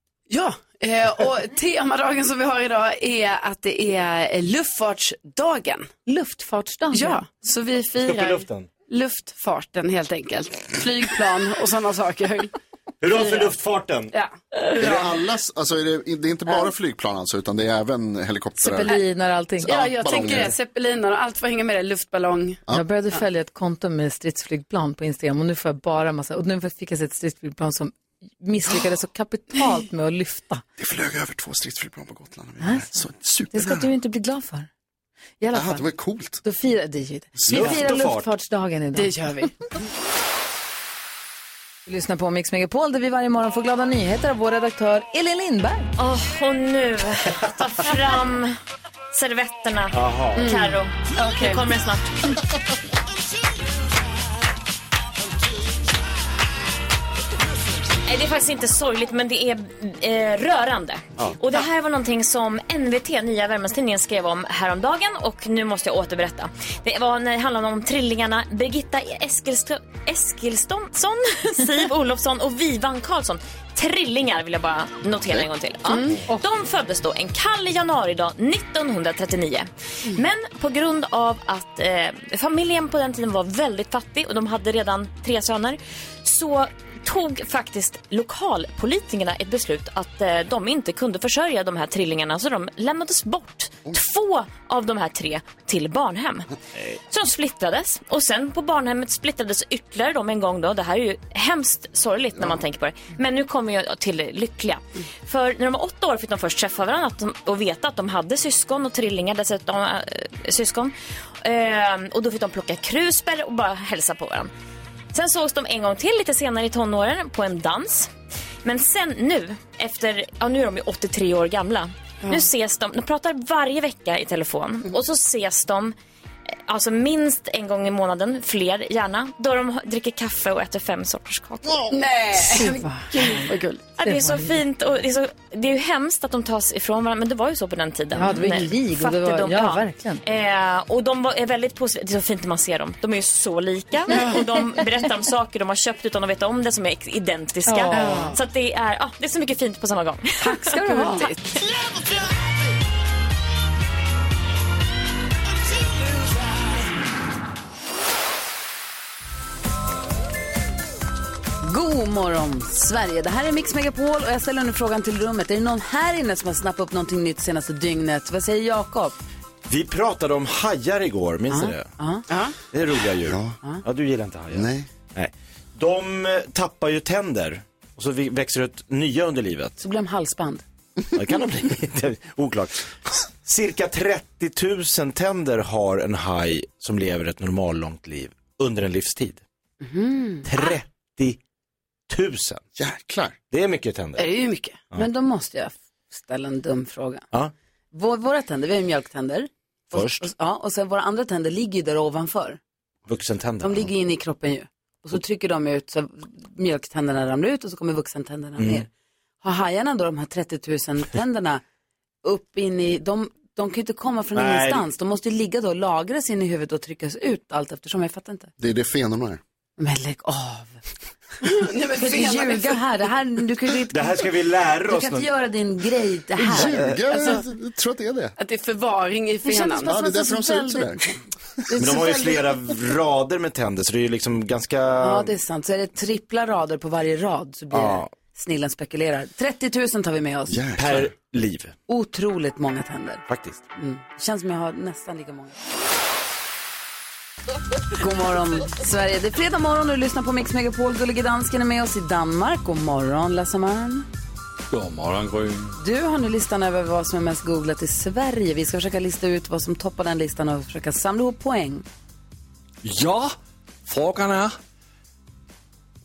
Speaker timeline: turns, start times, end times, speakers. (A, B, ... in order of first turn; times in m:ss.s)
0:00.3-0:05.9 A
0:06.1-0:07.6 B
0:06.9-0:12.5 A
0:08.0-0:08.7 C
0:13.0-0:14.1 C
0:13.1-0:13.5 A
0:14.1-0:15.0 A
0:14.8-0:19.0 D
0:18.6-0:20.4 B
0:19.6-0:22.6 A
0:19.6-0:20.6 D
0:22.7-0:30.6 B
0:30.8-0:33.9 D
0:32.6-0:32.9 B
0:33.5-0:34.7 B
0:35.4-0:35.9 B
0:35.5-0:36.4 D
0:36.4-0:39.2 B
0:37.4-0:37.8 D
0:37.5-0:38.3 C
0:39.0-0:39.5 A
0:41.9-0:45.9 B
0:46.0-0:48.6 E
0:49.1-0:52.3 E
0:49.9-0:50.5 C
0:50.4-0:51.6 A
0:58.1-1:36.5 E
1:16.1-1:16.4 B
1:37.1-1:54.5 E
1:55.1-1:58.1 E
1:58.6-2:06.0 E
2:06.7-2:11.9 E
2:11.9-2:13.9 A
2:12.4-2:14.6 B
2:14.0-2:31.3 E
2:18.2-2:20.2 B
2:24.1-2:24.4 A
2:27.7-2:28.4 B
2:27.9-2:28.3 A
2:30.4-2:31.4 B
2:30.9-2:31.4 A
2:41.6-2:49.2 B
2:49.7-2:51.9 C
2:51.5-2:52.2 B
2:52.3-2:52.6 A
2:52.7-2:59.8 C
2:53.3-2:53.6 D
2:54.5-2:54.9 D
2:59.8-3:00.6 B
3:01.2-3:09.4 C
3:09.8-3:10.5 B
3:10.4-3:11.4 C
3:12.1-3:12.6 C
3:12.8-3:13.4 D
3:13.5-3:14.3 C
3:14.2-3:14.8 A
3:14.9-3:17.3 B
3:17.9-3:22.6 B
3:19.9-3:20.3 C
3:23.1-3:23.9 C
3:23.6-3:28.9 B
3:28.6-3:28.9 C
3:29.4-3:31.6 B
3:32.2-3:38.5 B
3:34.3-3:34.9 C
3:38.6-3:39.4 D
3:39.8-3:40.8 B
3:41.4-3:42.8 A
3:42.0-3:44.3 B
3:43.9-3:45.3 C
3:44.9-3:47.4 B
3:46.4-3:48.4 D
3:46.6-3:47.0 C
3:48.4-3:49.9 A
3:49.4-3:51.2 B
3:49.8-3:51.6 D
3:51.7-3:52.4 B
3:51.8-3:55.4 C
3:55.0-4:00.6 B
3:57.7-3:58.1 C
4:00.5-4:01.1 D
4:00.8-4:01.7 C
4:01.9-4:03.2 B
4:03.3-4:03.6 C
4:03.8-4:05.5 B
4:08.0-4:14.1 B
4:14.7-4:15.8 F
4:15.8-4:21.8 B
4:22.8-4:23.3 F
4:23.9-4:24.6 F